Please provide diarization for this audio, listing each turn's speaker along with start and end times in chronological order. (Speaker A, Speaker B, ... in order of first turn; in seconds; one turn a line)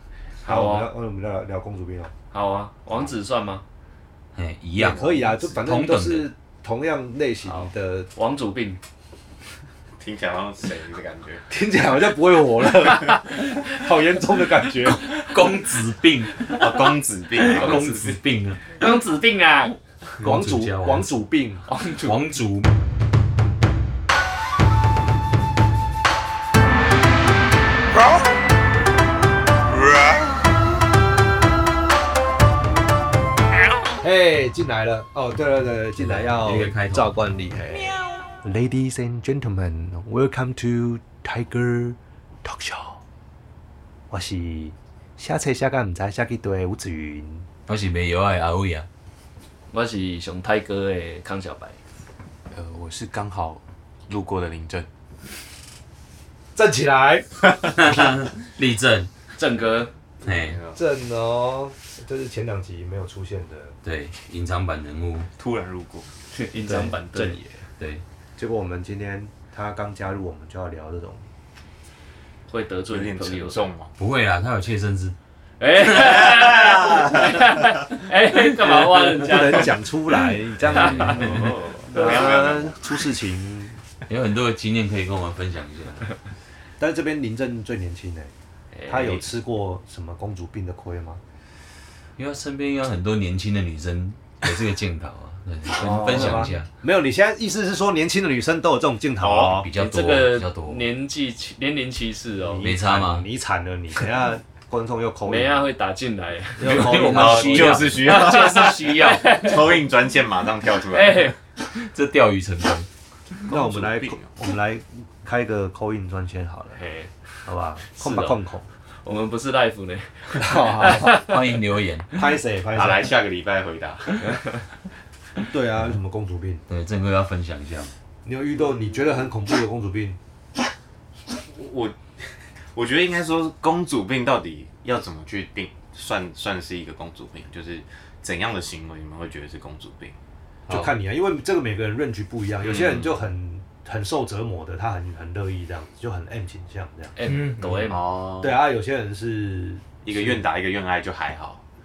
Speaker A: 0.4-2.1
Speaker B: 0.4-0.9
Speaker B: 2.3-3.6
Speaker C: 4.3-6.3
Speaker A: 4.8-8.1
Speaker B: 7.5-8.8
Speaker D: 10.0-11.4
Speaker A: 11.5-15.1
Speaker C: 14.8-18.6
Speaker D: 16.4-18.1
Speaker B: 17.6-18.1
Speaker B: 18.7-19.8
Speaker C: 20.2-21.1
Speaker A: 20.2-21.6
Speaker B: 21.7-22.2
Speaker C: 22.0-22.7
Speaker A: 34.0-43.0
Speaker C: 36.0-37.1
Speaker A: 44.1-47.5
Speaker C: 47.7-48.9
Speaker B: 49.7-51.8
Speaker D: 52.5-54.9
Speaker A: 56.5-57.4
Speaker C: 57.7-59.1
Speaker B: 59.4-59.9
Speaker C: 60.2-60.6
Speaker D: 60.2-60.8
Speaker A: 60.7-63.7
Speaker C: 63.8-65.3
Speaker D: 65.4-66.1
Speaker B: 66.3-67.4
Speaker A: 66.7-67.5
Speaker A: 68.4-71.2
Speaker B: 72.5-73.6
Speaker D: 72.9-73.9
Speaker C: 74.0-75.1
Speaker B: 75.6-79.8
Speaker D: 75.9-77.5
Speaker A: 79.1-83.8
Speaker C: 80.6-81.5
Speaker B: 80.8-82.4
Speaker D: 81.2-82.8
Speaker C: 84.1-86.1
Speaker A: 86.8-88.3
Speaker B: 88.7-89.2
Speaker A: 88.9-91.2
Speaker C: 92.2-96.7
Speaker B: 95.7-96.5
Speaker A: 95.8-99.7
Speaker D: 99.2-99.6
Speaker C: 99.4-100.8
Speaker B: 99.7-102.7
Speaker A: 102.4-105.6
Speaker C: 102.6-103.3
Speaker B: 105.2-109.7
Speaker A: 106.6-107.8
Speaker C: 106.6-109.5
Speaker D: 107.0-111.3
Speaker B: 110.9-111.4
Speaker C: 111.6-112.9
Speaker D: 113.5-114.3
Speaker A: 113.5-116.8
Speaker B: 116.7-117.1
Speaker A: 117.4-118.7
Speaker B: 117.9-118.4
Speaker B: 119.0-121.3
Speaker A: 120.3-121.2
Speaker C: 120.8-122.2
Speaker A: 122.1-123.1
Speaker D: 122.7-124.4
Speaker A: 125.5-126.6
Speaker C: 126.7-127.9
Speaker A: 128.2-130.2
Speaker D: 131.3-140.2
Speaker A: 140.7-147.1
Speaker D: 142.6-143.2
Speaker B: 147.2-148.1
Speaker C: 147.2-147.9
Speaker D: 147.8-148.6
Speaker A: 148.4-150.4
Speaker D: 150.0-151.6